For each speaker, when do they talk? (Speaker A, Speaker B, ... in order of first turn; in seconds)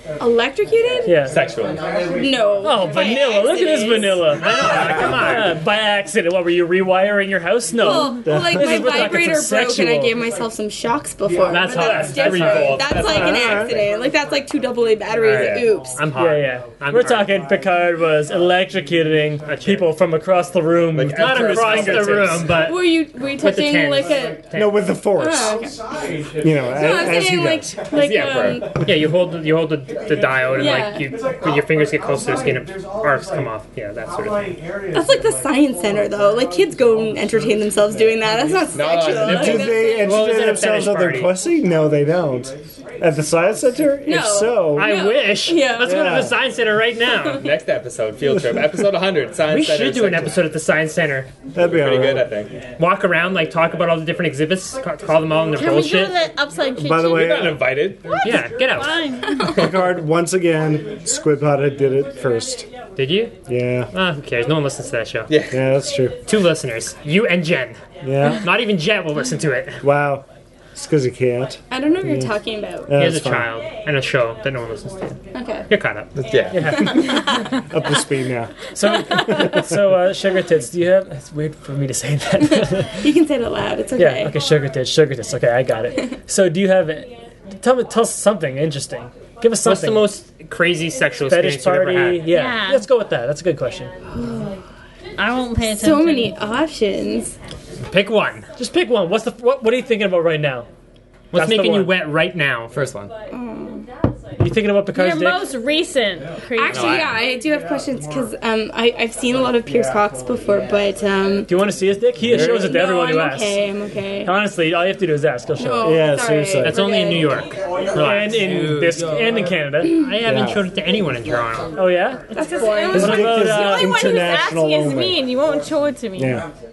Speaker A: 0.2-1.2, 2.1-5.1, 7.7-16.0, 22.5-24.4, 25.1-25.8, 26.7-28.8, 30.5-31.0, 34.9-40.3, 44.1-46.1, 71.7-72.9, 75.3-75.6, 76.7-77.4, 83.0-84.4, 94.1-94.6, 95.6-97.3, 103.3-103.8, 106.5-111.5, 112.3-114.3, 115.6-117.4, 122.3-123.4
Speaker B: 1.0-1.4, 2.6-10.2, 11.8-12.7, 16.1-22.5, 76.5-77.0, 78.7-83.0, 84.0-87.1, 87.6-90.1, 91.3-93.9, 98.6-100.7, 101.3-101.9, 104.4-105.5, 111.5-113.6, 114.2-116.0, 117.9-120.0, 121.7-122.2, 122.9-123.9
Speaker C: 1.3-1.8, 11.9-13.7, 15.3-15.7, 20.9-22.3, 28.0-28.6, 38.7-39.8, 47.4-50.4, 51.6-52.5, 57.1-58.1, 65.3-65.6, 76.2-77.0, 102.7-103.1, 106.6-107.2, 118.3-119.4
Speaker D: 4.4-5.5, 11.5-13.2, 15.2-17.4, 19.5-19.9, 21.1-24.8, 28.3-34.5, 39.9-41.3, 44.7-47.5, 49.5-51.3, 52.8-56.1, 58.2-59.0, 63.0-63.3, 63.9-65.3, 66.2-67.8, 68.4-69.8, 73.0-76.1, 89.6-92.3, 97.9-98.5, 101.3-102.7, 116.6-118.4, 119.9-121.8
Speaker E: 8.2-9.0, 13.0-13.7, 24.5-25.6, 26.4-27.7, 39.2-45.0, 45.8-46.4, 51.5-52.2, 56.8-57.7, 59.5-62.7, 63.5-63.9, 65.5-66.1, 68.0-68.4, 69.8-72.3, 72.9-73.5, 77.7-79.8, 112.2-112.6, 115.8-116.8, 120.2-120.6, 122.9-125.2, 126.2-126.4
Speaker F: 55.5-57.5, 58.0-59.6, 92.2-92.8, 95.2-96.4, 104.9-107.0, 122.3-126.4